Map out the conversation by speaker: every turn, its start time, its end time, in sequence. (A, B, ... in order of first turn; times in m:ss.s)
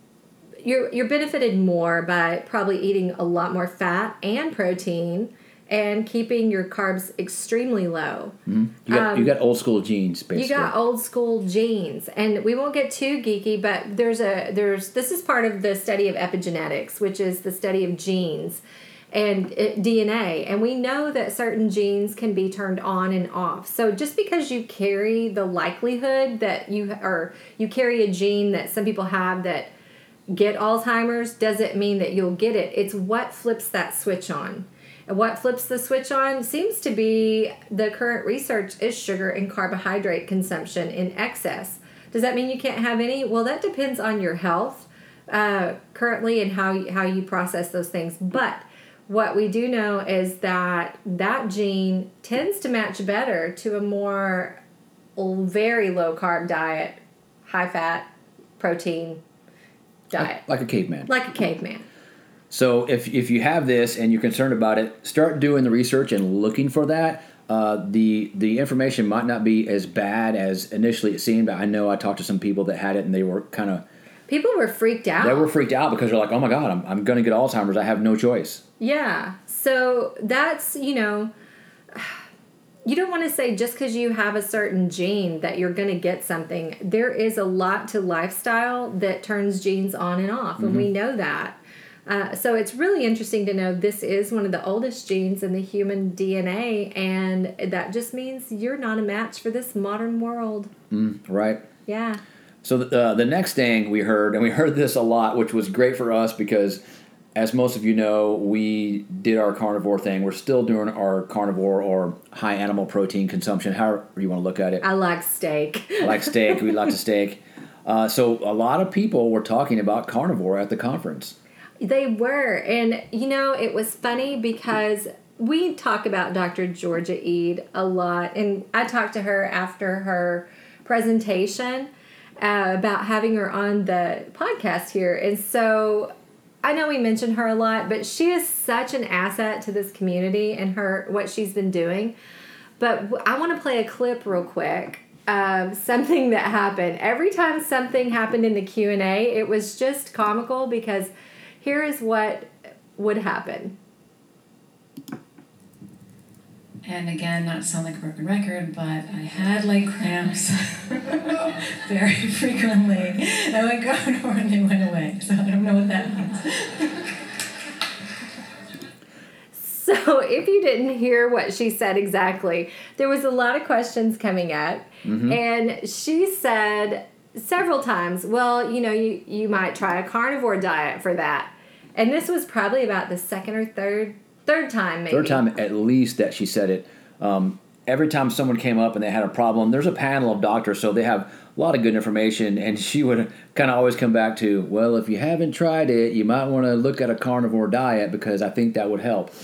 0:00.6-0:08.4 A
0:08.4-0:10.7 B
0:08.9-0:09.3 A
0:10.3-0:18.6 A
0:19.1-0:29.7 A
0:30.3-0:54.6 A
0:55.2-0:58.1 A
0:58.6-0:59.2 A
1:00.1-1:00.4 A
1:00.2-1:01.1 B
1:01.1-1:01.8 A
1:02.5-1:13.8 B
1:14.3-1:15.5 A
1:15.2-1:18.6 B
1:18.8-1:21.3 A
1:21.9-1:22.2 A
1:22.8-1:40.7 A
1:30.6-1:30.9 B
1:40.9-1:41.6 B
1:41.8-1:42.2 A
1:42.6-1:46.8 B
1:47.3-1:54.8 B
1:54.8-1:56.9 A
1:56.0-2:01.3 B
2:01.8-2:16.1 A
2:16.6-2:22.1 A
2:22.8-2:31.1 A
2:31.6-2:33.7 A
2:36.8-2:47.1 C
2:49.5-3:05.4 A
2:55.0-2:55.4 B
3:05.1-3:19.3 B